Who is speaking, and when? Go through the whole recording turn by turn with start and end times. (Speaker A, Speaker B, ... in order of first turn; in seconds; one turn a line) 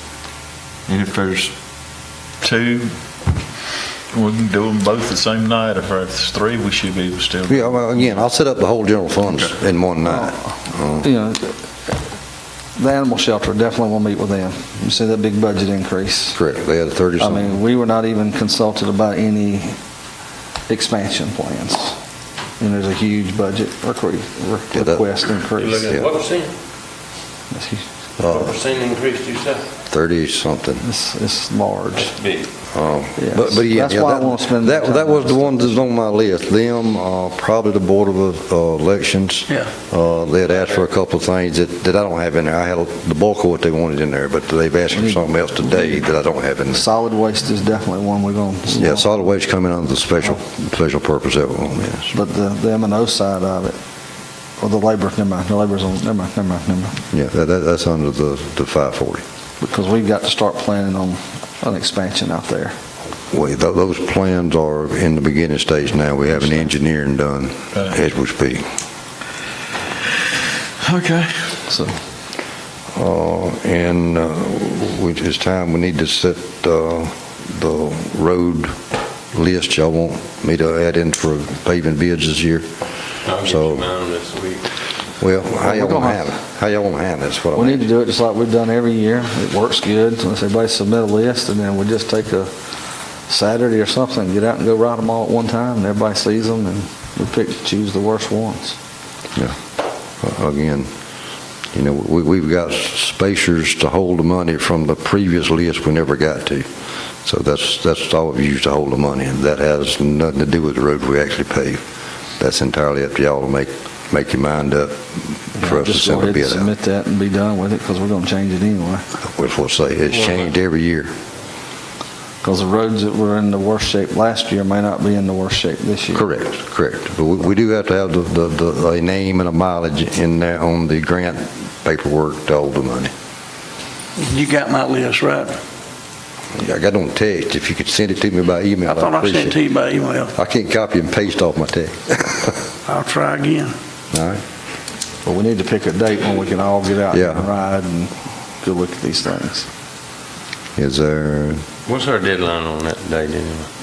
Speaker A: 0.9-1.4
Speaker B: 1.0-1.5
Speaker A: 2.4-2.9
Speaker A: 4.2-7.8
Speaker B: 4.3-4.7
Speaker C: 7.5-11.1
Speaker D: 11.0-11.6
Speaker D: 12.8-16.4
Speaker C: 16.3-17.6
Speaker D: 17.2-19.8
Speaker D: 20.7-22.0
Speaker D: 22.6-25.9
Speaker C: 24.7-25.1
Speaker E: 25.6-26.5
Speaker D: 27.5-27.8
Speaker C: 28.2-28.5
Speaker E: 28.2-29.6
Speaker C: 29.9-30.8
Speaker D: 30.8-32.1
Speaker E: 32.0-32.5
Speaker C: 32.7-46.9
Speaker D: 33.2-35.8
Speaker D: 44.9-45.9
Speaker D: 46.7-49.2
Speaker C: 48.7-52.1
Speaker D: 52.1-53.8
Speaker D: 54.6-57.0
Speaker C: 57.1-59.2
Speaker D: 59.6-62.7
Speaker C: 63.3-68.7
Speaker B: 70.8-71.5
Speaker D: 71.7-71.9
Speaker C: 72.9-78.7
Speaker C: 79.3-82.7
Speaker E: 83.2-84.6
Speaker C: 83.4-83.9
Speaker C: 85.2-87.8
Speaker D: 85.6-86.2
Speaker D: 87.5-92.5
Speaker D: 93.3-98.8
Speaker C: 100.2-100.9
Speaker C: 101.7-106.7
Speaker C: 107.2-111.8
Speaker C: 112.4-116.7
Speaker D: 115.6-119.0
Speaker C: 119.2-121.1
Speaker D: 122.4-126.2
Speaker C: 126.1-133.1
Speaker B: 134.2-135.6
Speaker C: 136.5-139.6
Speaker B: 138.8-140.3
Speaker C: 140.3-142.6
Speaker B: 142.9-143.7
Speaker C: 144.1-144.4
Speaker D: 145.2-149.7
Speaker C: 147.1-147.4
Speaker C: 150.8-151.6
Speaker E: 151.8-153.7